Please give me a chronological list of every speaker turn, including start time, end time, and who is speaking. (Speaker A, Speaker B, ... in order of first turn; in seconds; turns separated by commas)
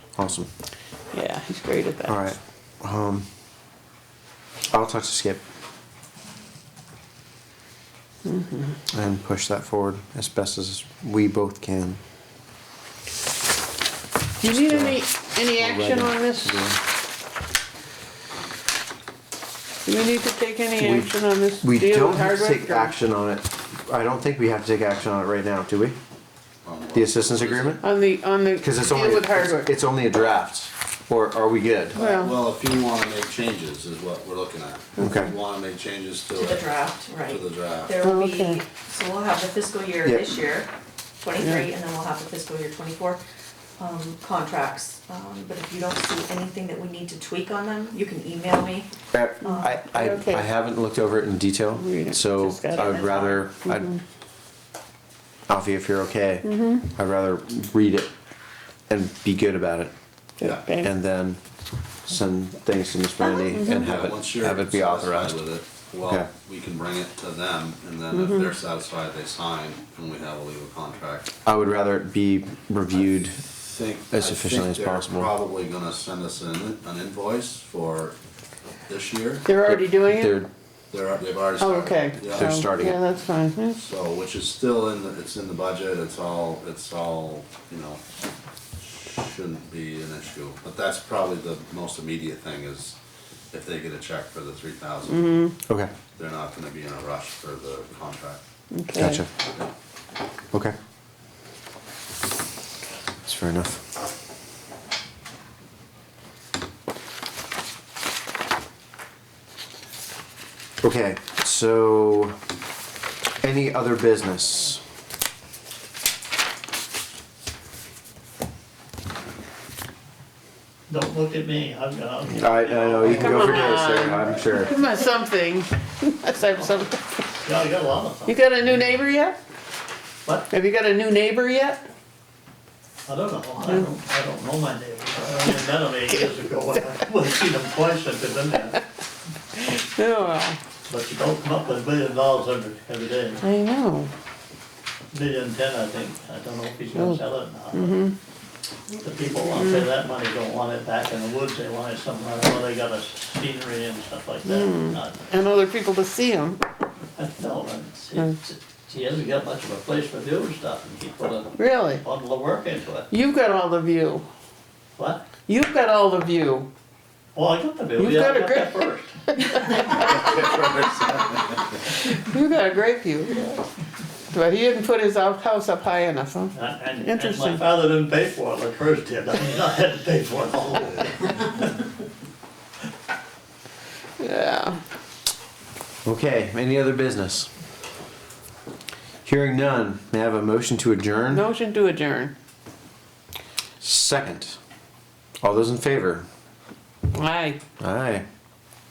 Speaker A: 0.1-0.5, Speaker B: 1.1-2.3, Speaker A: 2.1-3.3, Speaker A: 4.7-5.4, Speaker B: 8.2-8.8, Speaker A: 8.9-12.0, Speaker B: 14.4-16.7, Speaker A: 14.4-16.8, Speaker B: 19.8-22.9, Speaker A: 20.8-26.0, Speaker C: 26.6-27.8, Speaker A: 26.9-27.8, Speaker B: 27.8-29.7, Speaker A: 28.6-32.0, Speaker B: 31.9-32.3, Speaker C: 31.9-38.0, Speaker B: 35.0-35.3, Speaker A: 35.0-35.3, Speaker D: 36.4-40.7, Speaker B: 38.0-38.6, Speaker D: 41.2-43.2, Speaker B: 41.4-41.7, Speaker D: 43.8-48.9, Speaker A: 49.1-53.9, Speaker D: 49.4-49.8, Speaker B: 49.6-50.5, Speaker B: 51.8-54.0, Speaker D: 52.7-53.4, Speaker A: 55.5-58.1, Speaker B: 56.4-56.9, Speaker A: 58.9-59.9, Speaker B: 60.4-60.9, Speaker A: 60.8-61.4, Speaker A: 62.0-65.4, Speaker B: 63.5-63.9, Speaker C: 63.7-71.3, Speaker A: 66.0-66.3, Speaker B: 68.1-68.5, Speaker A: 71.4-73.4, Speaker C: 73.5-78.2, Speaker A: 74.1-75.3, Speaker C: 78.8-79.5, Speaker B: 79.4-80.4, Speaker A: 79.6-80.5, Speaker C: 80.9-82.6, Speaker B: 81.6-83.8, Speaker A: 82.2-83.0, Speaker C: 83.8-88.0, Speaker C: 89.1-93.0, Speaker C: 93.5-95.5, Speaker B: 95.1-95.5, Speaker A: 95.7-95.9, Speaker C: 96.1-98.4, Speaker B: 98.7-99.2, Speaker A: 99.0-99.3, Speaker A: 103.2-103.8, Speaker A: 110.8-112.3, Speaker A: 113.4-114.8, Speaker E: 120.9-123.9, Speaker A: 122.3-124.7, Speaker B: 123.0-127.0, Speaker E: 127.4-128.7, Speaker B: 128.3-129.4, Speaker B: 130.5-131.9, Speaker E: 133.1-138.8, Speaker B: 133.6-133.9, Speaker B: 139.6-140.6, Speaker E: 140.9-143.4, Speaker B: 143.4-144.1, Speaker E: 145.1-148.0, Speaker B: 146.9-147.2, Speaker B: 147.7-148.2, Speaker E: 149.0-155.3, Speaker B: 149.6-149.9, Speaker B: 154.4-156.6, Speaker E: 157.2-163.1, Speaker B: 161.6-162.0, Speaker B: 163.1-164.2, Speaker E: 164.9-165.2, Speaker B: 165.4-166.7, Speaker E: 167.3-170.1, Speaker B: 168.0-170.3, Speaker C: 170.0-171.4, Speaker B: 172.1-173.4, Speaker B: 174.3-177.6, Speaker E: 176.5-181.7, Speaker B: 184.2-184.8, Speaker A: 186.0-187.5, Speaker A: 189.2-191.4, Speaker B: 191.3-192.3, Speaker A: 193.8-194.6, Speaker A: 195.4-196.2, Speaker B: 197.1-197.6, Speaker A: 197.8-198.2